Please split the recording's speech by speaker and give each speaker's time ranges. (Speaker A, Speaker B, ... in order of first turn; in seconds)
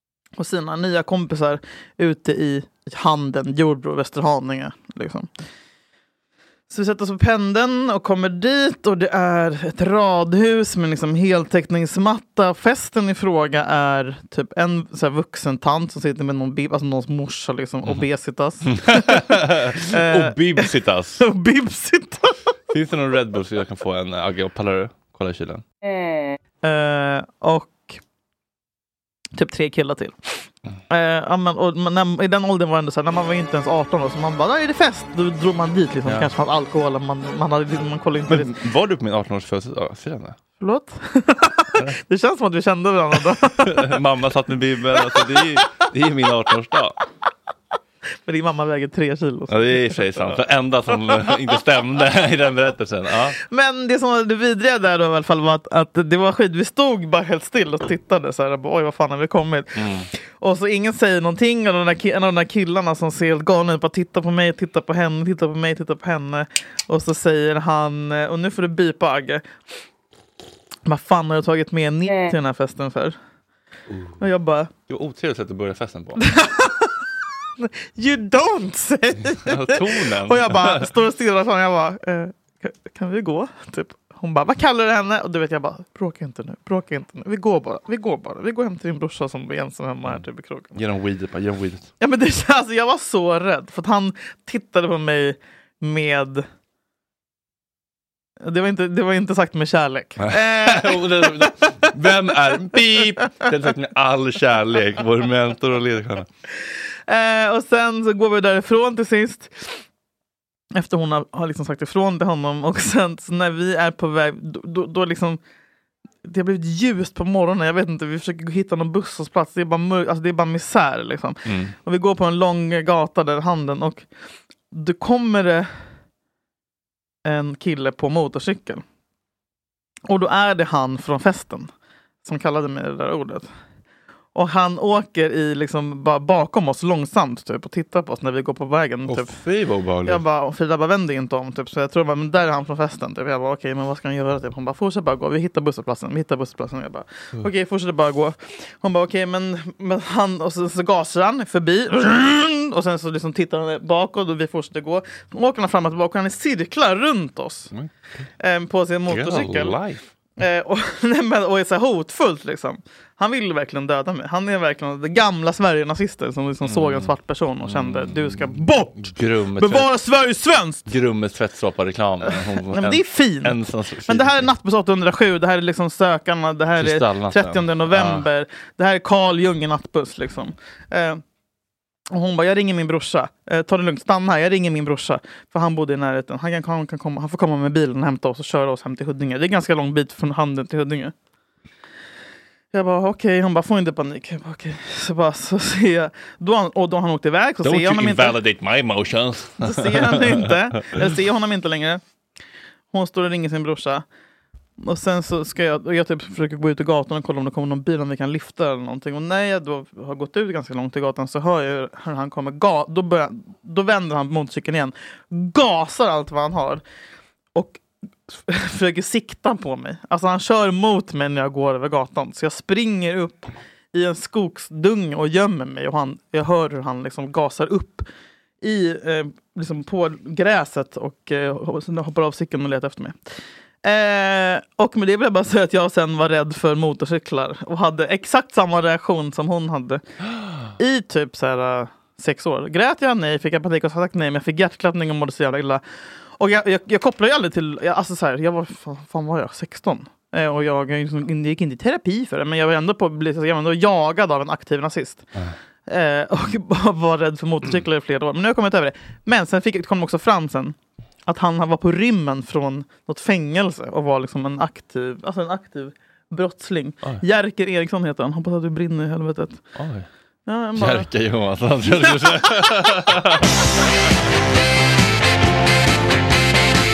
Speaker A: 0.4-5.3, 6.7-20.7, 21.2-22.4, 26.6-28.0, 29.4-38.5, 40.6-43.9, 48.3-50.4, 53.5-69.5, 70.9-73.2, 74.2-74.7, 76.2-76.9, 77.6-90.8, 92.0-96.5, 98.4-101.7, 107.1-109.8, 110.8-115.4, 116.2-124.1, 124.7-125.7, 127.2-128.8, 130.1-131.7, 132.2-133.5, 134.3-139.3, 140.1-157.7, 158.4-159.8, 160.4-170.9, 172.3-173.6, 174.1-181.2, 182.1-191.1, 192.7-198.4, 199.6-202.0, 202.9-204.1, 204.8-216.8, 217.6-228.1, 228.6-233.2, 233.8-240.0, 240.8-245.8, 246.4-255.3, 255.9-269.6, 270.5-271.1, 272.0-272.9
Speaker B: 18.7-21.2, 22.7-25.6, 38.3-40.4, 43.6-47.0, 49.5-53.4, 59.8-60.1, 73.9-74.2, 74.9-76.2, 79.5-80.9, 90.8-91.9, 100.2-106.3, 121.5-121.8, 139.1-140.2, 159.1-160.1, 166.6-167.1, 167.6-169.9, 170.9-174.5, 176.8-178.3, 197.6-200.5, 269.8-270.1, 270.8-273.5